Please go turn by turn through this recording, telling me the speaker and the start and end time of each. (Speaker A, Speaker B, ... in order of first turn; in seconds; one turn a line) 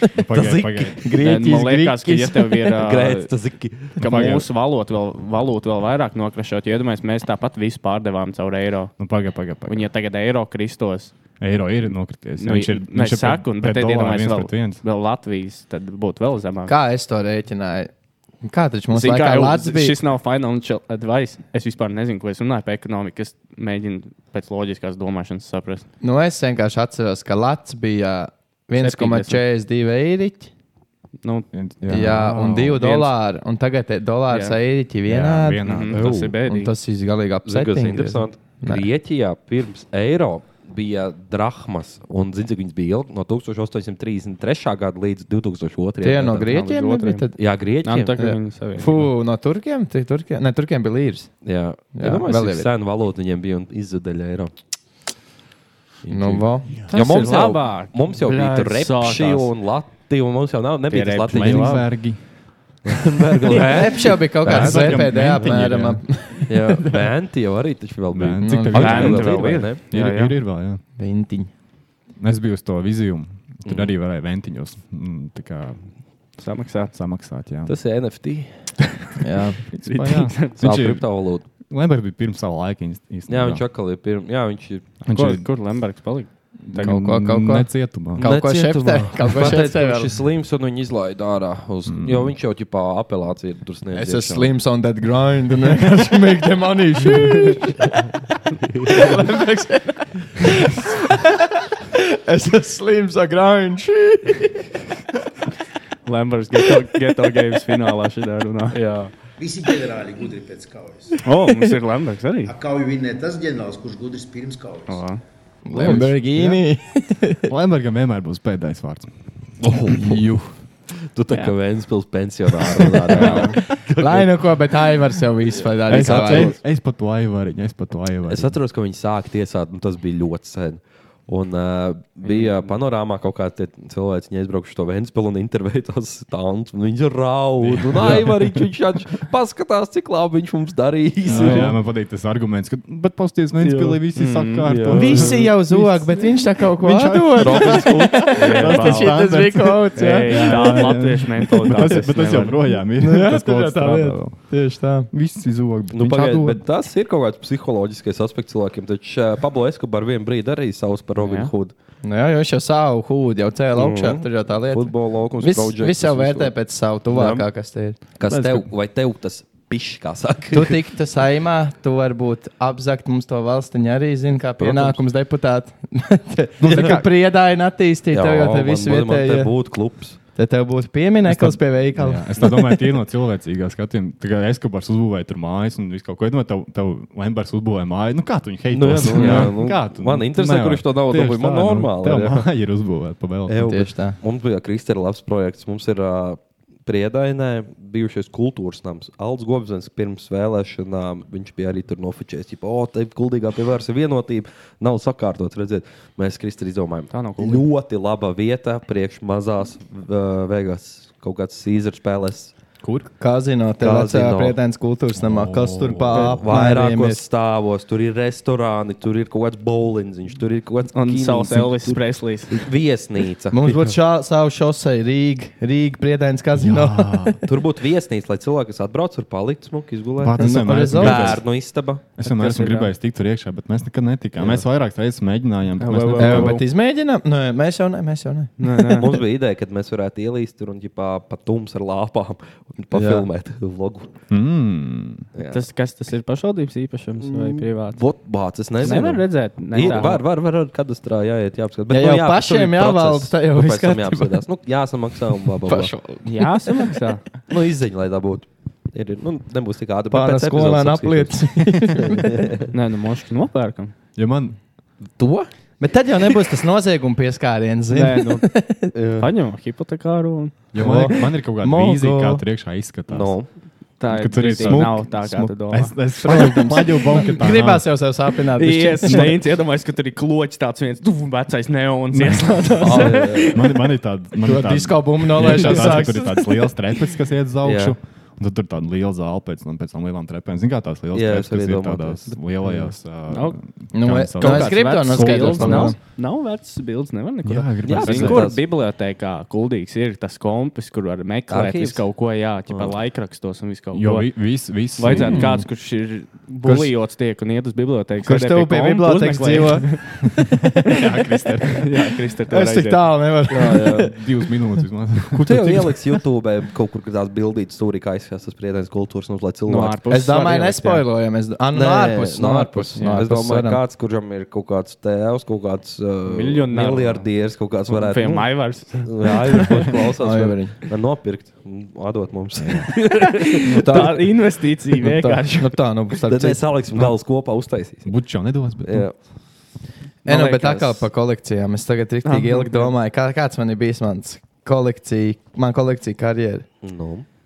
Speaker A: 0.1-1.0
Speaker B: 0.3-0.9
Speaker C: 1.0-2.6
Speaker D: 1.2-3.3
Speaker B: 2.8-4.0
Speaker A: 4.0-4.5
Speaker D: 4.0-9.1
Speaker A: 9.0-9.9
Speaker D: 9.6-11.1
Speaker A: 11.4-14.8
Speaker D: 12.4-16.7
Speaker C: 16.7-17.9
Speaker C: 18.4-20.0
Speaker D: 18.9-25.9
Speaker C: 26.0-30.5
Speaker D: 28.8-29.4
Speaker D: 31.2-32.2
Speaker A: 31.5-32.9
Speaker C: 31.9-38.9
Speaker D: 32.7-33.1
Speaker D: 34.3-34.6
Speaker A: 35.0-36.3
Speaker D: 35.6-36.7
Speaker B: 35.9-36.3
Speaker B: 37.4-46.5
Speaker C: 46.0-47.4
Speaker D: 46.4-47.3
Speaker B: 47.4-48.1
Speaker D: 47.8-49.1
Speaker C: 48.2-51.4
Speaker B: 51.4-54.5
Speaker C: 51.9-52.7
Speaker C: 56.1-56.9
Speaker A: 56.1-57.1
Speaker D: 56.8-59.5
Speaker B: 56.9-62.0
Speaker D: 60.9-61.9
Speaker A: 61.3-62.8
Speaker B: 62.9-65.2
Speaker C: 63.7-67.0
Speaker A: 64.4-66.4
Speaker B: 66.5-69.8
Speaker A: 68.1-70.8
Speaker C: 68.4-69.3
Speaker D: 68.7-70.4
Speaker C: 71.0-71.5
Speaker A: 72.2-76.0
Speaker B: 73.7-73.9
Speaker D: 76.4-76.9
Speaker A: 76.9-77.8
Speaker B: 77.7-78.5
Speaker C: 79.2-79.6
Speaker D: 79.7-80.6
Speaker A: 79.9-83.7
Speaker B: 80.6-81.4
Speaker B: 83.3-84.9
Speaker A: 85.0-85.5
Speaker D: 85.1-87.0
Speaker A: 86.6-88.3
Speaker C: 86.8-90.1
Speaker B: 88.2-94.5
Speaker A: 91.9-92.4
Speaker C: 93.9-98.1
Speaker C: 98.9-101.3
Speaker C: 101.9-104.6
Speaker D: 106.1-108.8
Speaker E: 109.4-111.2
Speaker D: 111.2-112.5
Speaker E: 112.5-115.0
Speaker D: 114.9-115.2
Speaker C: 115.6-117.5
Speaker B: 115.8-116.1
Speaker A: 115.8-116.6
Speaker A: 117.5-119.1
Speaker B: 119.6-120.2
Speaker C: 119.9-120.5
Speaker B: 121.1-124.5
Speaker C: 123.1-126.6
Speaker D: 123.1-123.6
Speaker A: 123.2-123.5
Speaker B: 125.6-126.6
Speaker A: 125.9-128.5
Speaker B: 128.3-141.7
Speaker D: 132.2-132.7
Speaker A: 137.6-138.7
Speaker A: 141.3-156.6
Speaker B: 143.6-145.4
Speaker D: 144.1-144.7
Speaker C: 144.9-151.1
Speaker B: 147.4-148.7
Speaker D: 148.4-152.6
Speaker C: 152.9-155.1
Speaker B: 155.9-161.7
Speaker D: 161.2-161.5
Speaker C: 162.0-168.0
Speaker B: 163.7-166.6
Speaker B: 167.1-167.5
Speaker B: 168.2-170.8
Speaker A: 168.3-168.7
Speaker C: 170.5-179.5
Speaker B: 174.6-175.0
Speaker B: 176.6-177.1
Speaker A: 176.6-177.1
Speaker B: 178.1-180.2
Speaker C: 180.3-182.6
Speaker A: 181.2-193.9
Speaker B: 188.7-192.4
Speaker C: 189.2-189.5
Speaker B: 193.5-212.5
Speaker C: 193.6-194.2
Speaker D: 207.1-207.7
Speaker A: 212.8-213.1
Speaker C: 213.2-217.2
Speaker B: 213.8-214.6
Speaker A: 215.1-216.7
Speaker B: 216.1-223.9
Speaker D: 220.9-222.6
Speaker C: 223.5-227.4
Speaker A: 226.6-227.4
Speaker B: 227.4-232.0
Speaker A: 230.2-231.5
Speaker C: 230.4-231.4
Speaker A: 232.2-236.6
Speaker D: 232.2-232.9
Speaker B: 234.4-234.6
Speaker D: 235.8-236.6
Speaker C: 236.2-238.5
Speaker D: 238.6-239.1
Speaker B: 238.9-244.1
Speaker C: 242.9-243.2
Speaker A: 244.3-245.2
Speaker B: 245.3-245.6
Speaker D: 245.5-248.0
Speaker B: 247.2-255.9
Speaker D: 248.8-250.2
Speaker C: 251.9-254.4
Speaker C: 255.7-256.9
Speaker D: 256.2-257.2
Speaker B: 257.5-262.7
Speaker C: 260.1-262.4
Speaker D: 262.7-263.9
Speaker A: 264.1-264.6
Speaker B: 265.2-265.5
Speaker C: 265.8-268.9
Speaker D: 267.9-270.6
Speaker B: 268.9-269.3
Speaker A: 270.7-273.4
Speaker C: 270.7-272.4
Speaker B: 273.1-273.5
Speaker D: 274.0-276.4
Speaker A: 274.1-278.0
Speaker C: 274.6-274.9
Speaker C: 276.2-279.4
Speaker D: 278.6-283.6
Speaker A: 279.1-279.4
Speaker A: 282.1-295.9
Speaker B: 282.8-283.5
Speaker C: 284.4-286.5
Speaker B: 287.6-287.9
Speaker B: 291.1-292.4
Speaker D: 293.3-293.6
Speaker C: 293.9-295.9
Speaker D: 294.4-310.2
Speaker A: 297.4-298.6
Speaker B: 297.8-298.6
Speaker B: 301.5-302.0
Speaker B: 302.7-302.9
Speaker A: 303.9-305.6
Speaker C: 305.2-305.6
Speaker C: 306.6-306.9
Speaker C: 308.2-311.0
Speaker A: 310.8-311.8
Speaker D: 311.7-313.1
Speaker C: 312.5-314.1
Speaker B: 313.5-314.1
Speaker A: 313.9-316.0
Speaker B: 315.3-320.0
Speaker D: 319.6-321.1
Speaker C: 320.1-323.8
Speaker B: 321.7-334.1
Speaker D: 322.9-323.2
Speaker D: 326.2-329.7
Speaker C: 330.2-330.8
Speaker A: 332.6-333.0
Speaker D: 333.2-335.8
Speaker C: 333.7-334.4
Speaker C: 335.0-336.7
Speaker B: 336.2-338.1
Speaker A: 338.1-339.1
Speaker B: 338.8-339.1
Speaker D: 340.2-341.1
Speaker C: 340.3-346.7
Speaker D: 342.2-342.9
Speaker B: 346.8-347.2